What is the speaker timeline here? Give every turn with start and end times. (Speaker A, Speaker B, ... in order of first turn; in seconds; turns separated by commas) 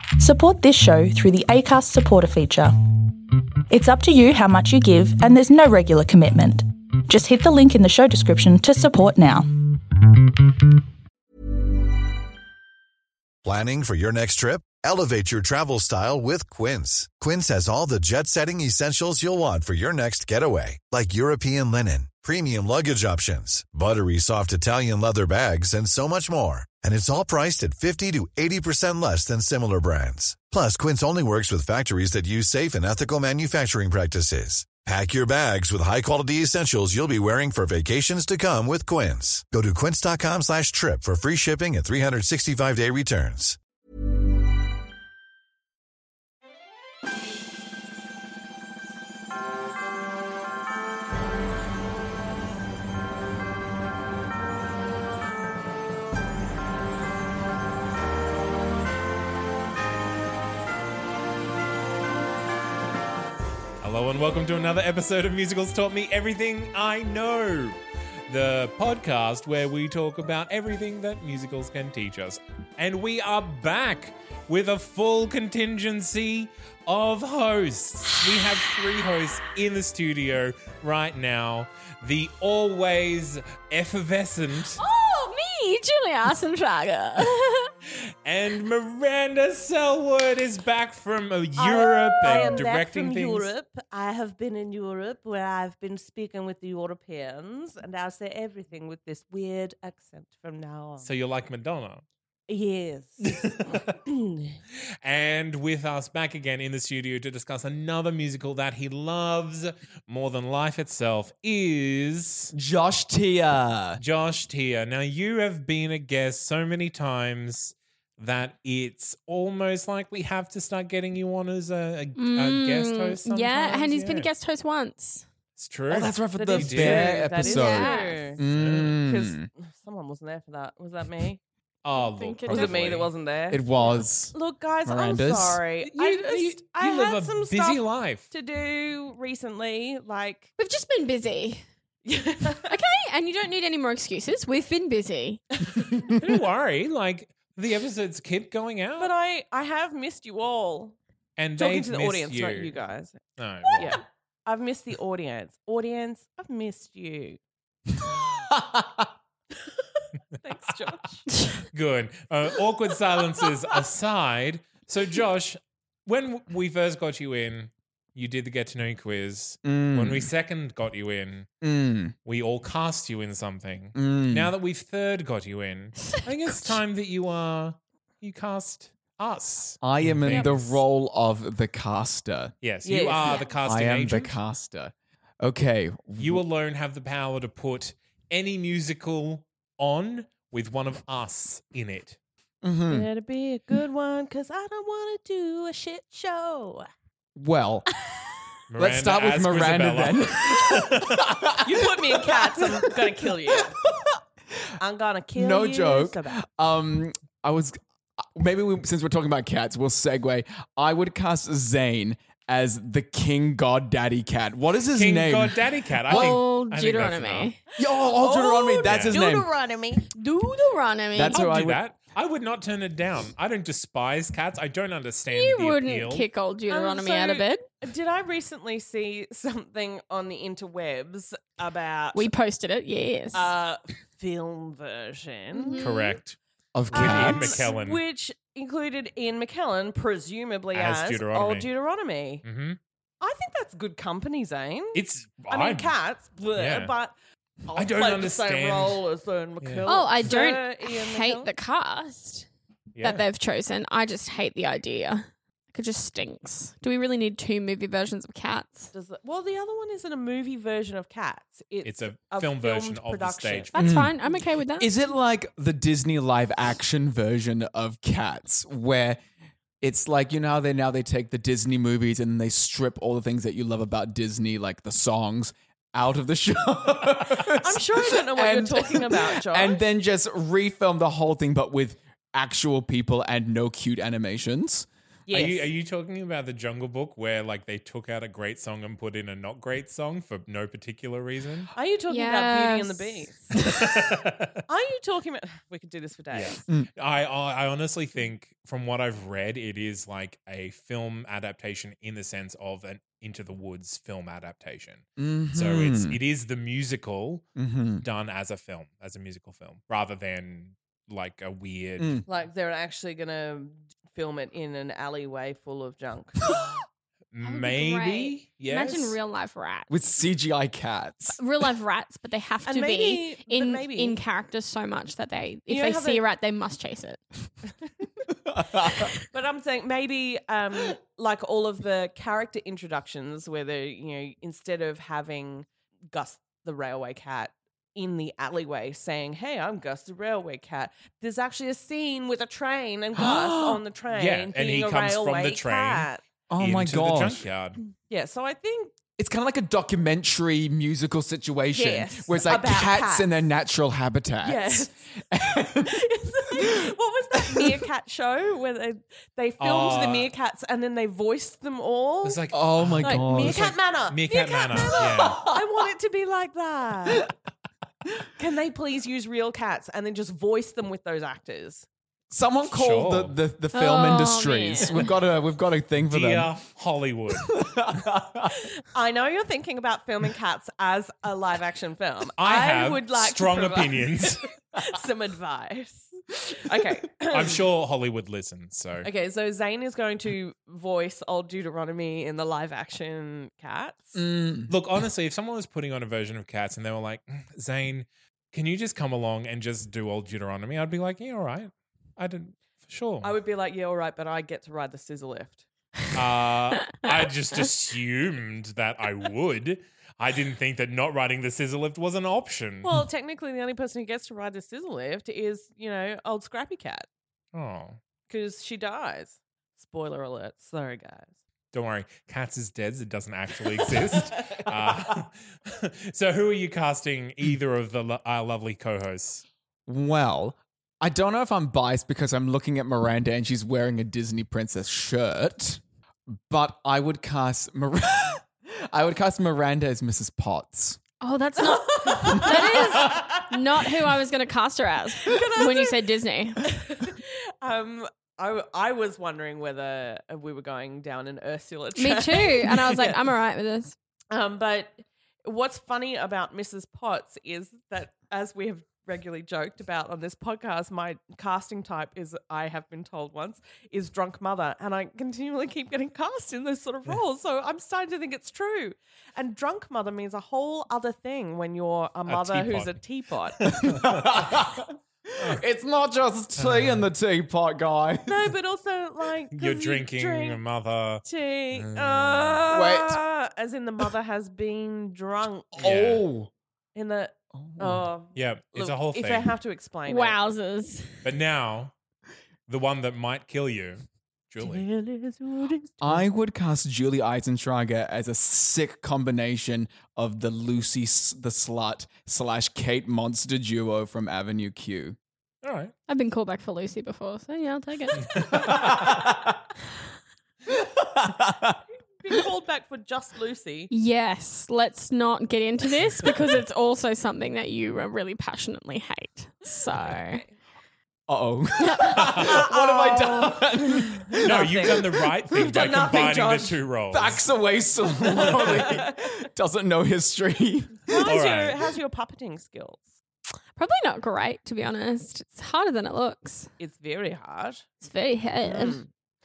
Speaker A: 0.2-2.8, Speaker A: 3.7-9.5, Speaker B: 13.4-43.6, Speaker C: 63.8-84.8, Speaker D: 84.8-87.7, Speaker C: 87.8-93.5, Speaker E: 91.6-101.1, Speaker D: 92.3-92.5, Speaker C: 101.0-102.0, Speaker E: 102.5-103.2, Speaker C: 103.2-104.0, Speaker E: 104.0-104.5, Speaker C: 105.0-112.5, Speaker F: 112.5-114.0, Speaker C: 114.0-124.3, Speaker D: 122.2-125.2, Speaker C: 125.6-127.2, Speaker F: 125.9-129.5, Speaker E: 126.3-128.4, Speaker D: 127.4-128.3, Speaker C: 128.5-129.0, Speaker E: 129.1-131.4, Speaker C: 131.8-133.1, Speaker D: 131.9-132.8, Speaker E: 132.5-133.7, Speaker F: 133.5-135.6, Speaker E: 134.3-140.5, Speaker C: 135.8-138.2, Speaker D: 140.6-141.7, Speaker E: 142.0-142.7, Speaker D: 142.6-145.7, Speaker C: 146.1-149.1, Speaker E: 149.0-151.0, Speaker C: 151.4-152.8, Speaker E: 151.6-153.2, Speaker C: 153.4-154.0, Speaker E: 153.8-157.4, Speaker F: 158.0-159.1, Speaker E: 160.4-161.2, Speaker C: 161.7-171.5, Speaker F: 169.6-170.3, Speaker F: 171.6-172.2, Speaker C: 172.2-180.8, Speaker F: 173.9-174.5, Speaker D: 176.1-176.8, Speaker F: 179.8-182.5, Speaker C: 182.6-184.3, Speaker E: 182.8-183.4, Speaker D: 183.2-183.5, Speaker F: 183.6-186.4, Speaker C: 186.2-192.2, Speaker F: 192.6-193.1, Speaker E: 192.9-196.9, Speaker F: 197.3-197.9, Speaker C: 198.7-201.3, Speaker F: 198.8-203.1, Speaker E: 201.6-203.8, Speaker E: 204.8-206.4, Speaker F: 205.3-216.4, Speaker C: 214.9-217.5, Speaker D: 216.1-217.6, Speaker F: 217.8-219.5, Speaker E: 218.2-220.1, Speaker C: 218.8-219.3, Speaker D: 220.1-221.5, Speaker F: 221.1-221.8, Speaker C: 221.3-226.3, Speaker D: 225.3-227.7, Speaker E: 226.7-232.3, Speaker D: 232.1-233.5, Speaker E: 233.3-235.9, Speaker D: 235.5-236.2, Speaker C: 235.8-236.4, Speaker F: 236.8-237.6, Speaker C: 236.9-238.0, Speaker E: 236.9-242.4, Speaker C: 240.7-241.7, Speaker C: 242.4-242.8, Speaker E: 243.2-251.5, Speaker C: 244.9-245.9, Speaker C: 246.5-246.9, Speaker C: 247.8-249.0, Speaker C: 249.6-249.9, Speaker D: 249.8-252.5, Speaker C: 252.9-253.2, Speaker D: 253.0-258.9, Speaker E: 258.9-263.7, Speaker C: 261.8-264.0, Speaker D: 263.7-264.9, Speaker F: 263.8-264.1, Speaker F: 264.8-269.2, Speaker F: 269.8-284.9, Speaker E: 277.4-279.8, Speaker E: 285.3-285.7, Speaker C: 285.3-291.7, Speaker E: 291.8-293.6, Speaker D: 292.1-293.3, Speaker C: 293.6-294.6, Speaker E: 294.7-296.6, Speaker C: 296.3-307.5, Speaker F: 305.2-306.2, Speaker F: 307.6-308.1, Speaker C: 308.0-312.2, Speaker F: 312.0-312.2, Speaker E: 312.3-316.5, Speaker C: 317.3-319.2, Speaker D: 317.4-319.9, Speaker F: 319.9-321.7, Speaker D: 321.4-327.5, Speaker E: 322.6-324.2, Speaker E: 325.7-326.2, Speaker F: 328.4-329.1, Speaker E: 329.3-346.2, Speaker F: 343.1-343.8, Speaker C: 344.1-347.8, Speaker F: 346.5-347.4, Speaker E: 348.1-348.9, Speaker F: 349.2-356.9, Speaker E: 351.7-353.4, Speaker E: 354.4-355.0, Speaker E: 355.8-362.4, Speaker F: 357.4-357.8, Speaker C: 359.6-360.3, Speaker C: 362.2-365.4, Speaker F: 362.5-363.7, Speaker E: 363.0-367.3, Speaker F: 365.0-365.6, Speaker E: 368.4-371.9, Speaker F: 372.3-376.5, Speaker C: 372.6-373.4, Speaker D: 373.7-374.9, Speaker C: 376.0-377.6, Speaker F: 377.4-378.6, Speaker E: 378.5-387.6, Speaker C: 382.4-384.5, Speaker C: 387.3-389.1, Speaker E: 389.0-394.2, Speaker F: 394.1-394.8, Speaker C: 394.7-403.3, Speaker E: 403.2-405.6, Speaker C: 406.1-412.9, Speaker E: 412.8-417.1, Speaker C: 417.5-418.0, Speaker E: 418.3-421.3, Speaker C: 421.7-429.4, Speaker F: 429.9-441.0, Speaker D: 441.2-446.7, Speaker E: 441.6-443.5, Speaker F: 442.4-442.9, Speaker E: 445.2-446.0, Speaker E: 446.6-453.2, Speaker D: 451.9-453.9, Speaker E: 454.3-473.7, Speaker C: 472.3-473.0, Speaker C: 473.6-474.4, Speaker F: 473.7-478.5, Speaker C: 475.4-475.6, Speaker C: 476.6-477.1, Speaker E: 478.3-480.6, Speaker C: 479.5-482.6, Speaker E: 481.2-485.9, Speaker F: 482.7-483.2, Speaker F: 485.8-486.5, Speaker C: 485.8-486.3, Speaker E: 486.9-490.4, Speaker F: 487.5-488.1, Speaker C: 488.3-489.5, Speaker D: 490.1-491.2, Speaker C: 491.2-491.9, Speaker C: 492.7-494.9, Speaker E: 494.6-496.2, Speaker F: 496.0-505.2, Speaker C: 505.6-505.9, Speaker D: 506.1-508.8, Speaker C: 508.2-509.0, Speaker F: 508.4-509.6, Speaker F: 510.7-511.8, Speaker E: 512.2-513.9, Speaker D: 513.9-520.4, Speaker E: 520.1-520.5, Speaker F: 521.3-525.3, Speaker D: 521.9-522.4, Speaker E: 522.2-523.6, Speaker E: 524.4-526.8, Speaker C: 524.4-527.4, Speaker F: 527.1-531.4, Speaker E: 528.2-529.1, Speaker C: 528.4-529.0, Speaker E: 531.1-533.1, Speaker C: 531.2-531.8, Speaker D: 533.8-536.7, Speaker E: 536.8-537.9, Speaker D: 538.0-539.0, Speaker E: 538.6-539.1